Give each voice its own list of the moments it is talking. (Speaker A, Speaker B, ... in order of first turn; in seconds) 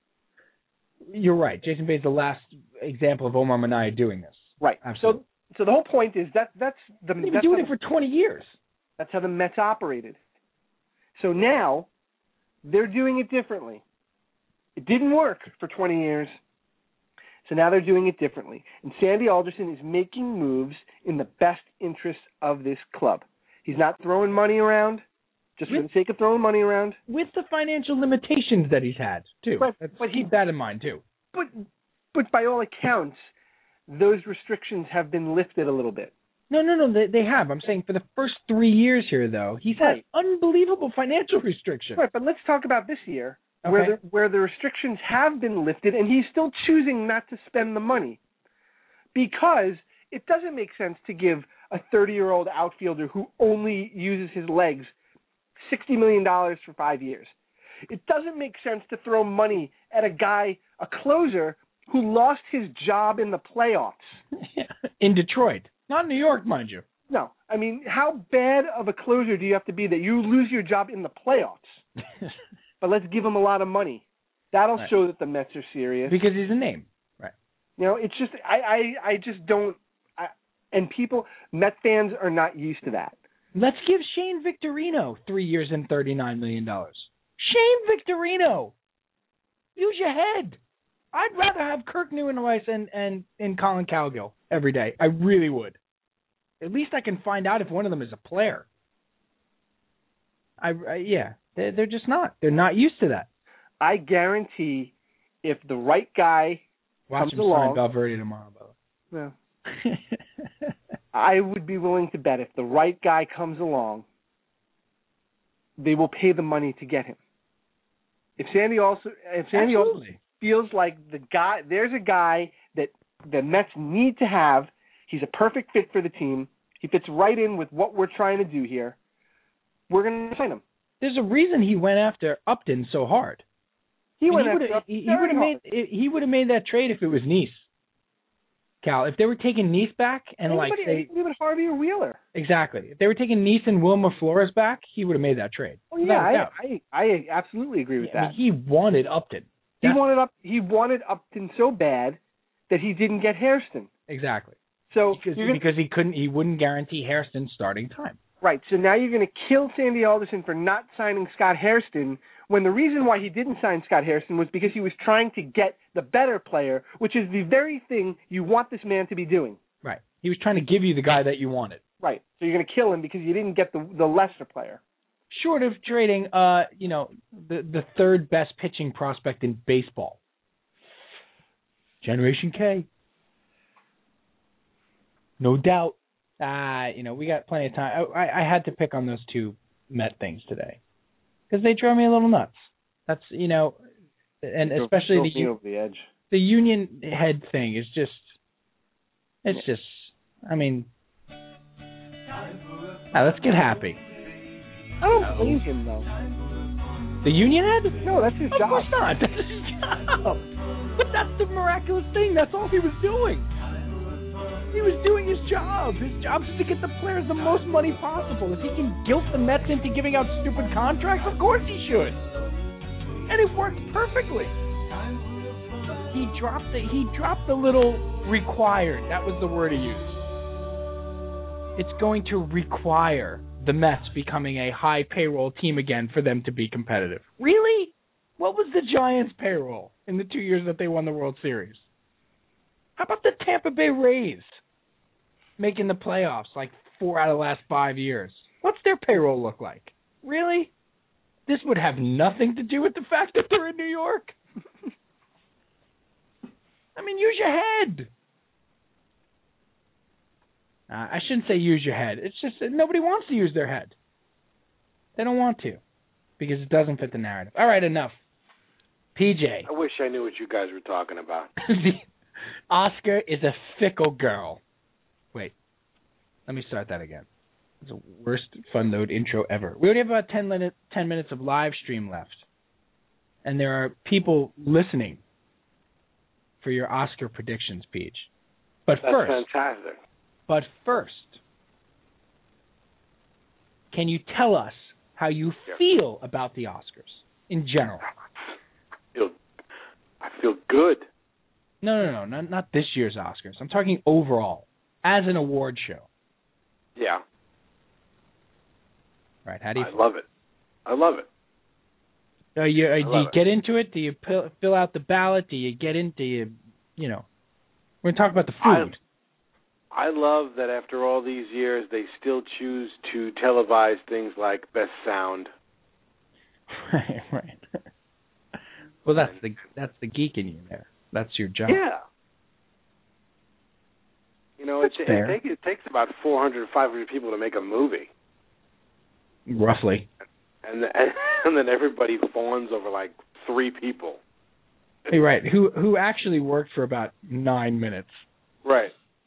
Speaker A: 1.1-5.2, 7.2-8.6, 27.1-31.0, 36.5-42.0, 43.6-44.0, 64.3-66.8, 76.1-77.3, 83.5-88.7, 89.8-90.6, 91.1-95.8, 96.6-98.7, 100.6-103.3, 107.1-108.8, 109.7-110.7, 119.5-120.2, 131.0-133.4, 134.3-137.7, 138.8-141.1, 142.3-146.5, 148.0-150.0, 154.1-154.6, 155.1-158.2, 169.8-171.8, 175.3-180.2, 182.0-182.9, 185.4-190.8, 191.5-193.8, 194.4-195.5, 196.3-198.4, 199.4-200.9, 203.1-204.0, 205.1-205.6, 207.2-208.0, 208.5-213.5, 214.7-222.2, 223.3-224.6, 226.0-230.2, 231.8-241.9, 243.0-244.6, 245.6-250.7, 251.5-254.3, 257.0-258.1, 260.9-263.9, 265.2-265.8, 266.4-268.2, 269.1-269.7, 271.6-272.1, 272.7-274.6, 276.5-277.3, 277.8-282.4, 283.4-285.2, 286.6-288.3, 288.9-289.4, 290.5-291.4, 293.9-298.1, 301.8-306.1, 309.4-310.0, 312.6-317.3, 318.0-319.0, 326.7-327.7, 329.1-331.8, 334.8-335.4, 339.5-340.1, 345.1-348.2
Speaker B: 4.6-7.7, 9.0-10.2, 11.2-11.9, 12.7-13.8, 14.8-16.4, 17.4-25.0, 25.6-27.0, 29.6-30.3, 31.3-33.3, 33.9-36.1, 39.8-40.0, 42.0-48.2, 49.1-54.9, 55.6-57.3, 57.9-64.2, 67.1-71.8, 72.8-76.2, 77.8-83.2, 103.8-106.6, 107.2-107.8, 111.1-114.0, 115.8-117.2, 118.4-129.0, 129.9-130.6, 134.2-135.6, 140.5-142.2, 145.9-148.3, 149.8-152.2, 152.7-153.9, 154.9-155.6, 158.4-169.6, 172.0-174.8, 194.6-196.1, 205.0-206.1, 208.0-208.9
Speaker C: 269.6-271.5, 289.0-290.0, 300.2-301.1, 307.0-307.2, 309.8-310.2, 310.9-311.3, 313.0-313.4, 318.6-318.9, 319.9-325.5, 331.7-332.0, 334.6-338.1, 340.6-344.2, 348.6-348.9